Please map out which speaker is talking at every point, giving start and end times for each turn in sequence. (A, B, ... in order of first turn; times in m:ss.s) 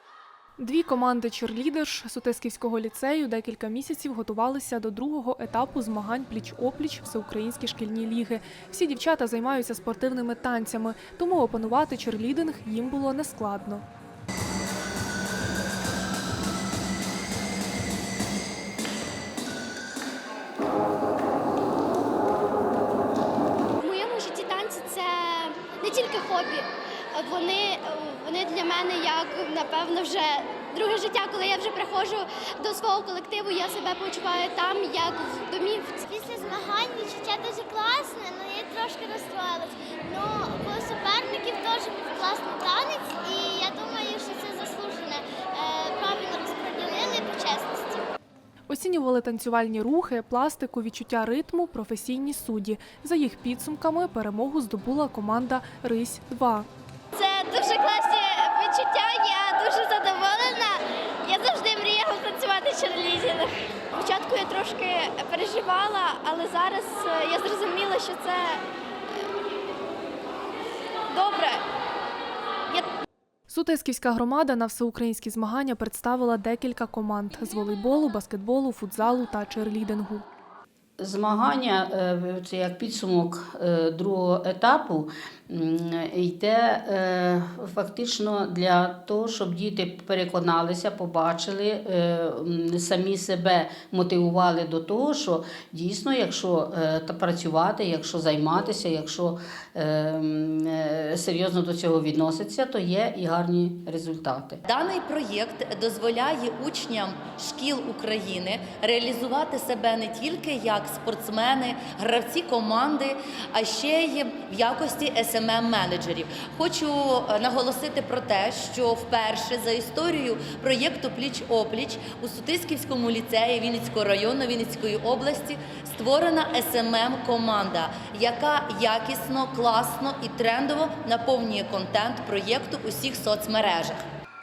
0:00.6-0:13.8 A
0:23.8-0:36.1 B
0:36.1-0:48.0 C
0:48.7-0:56.7 A
0:57.1-1:08.6 B
1:11.1-1:11.6 B
1:13.5-1:20.2 A
1:21.0-1:44.6 D
1:44.6-2:14.0 E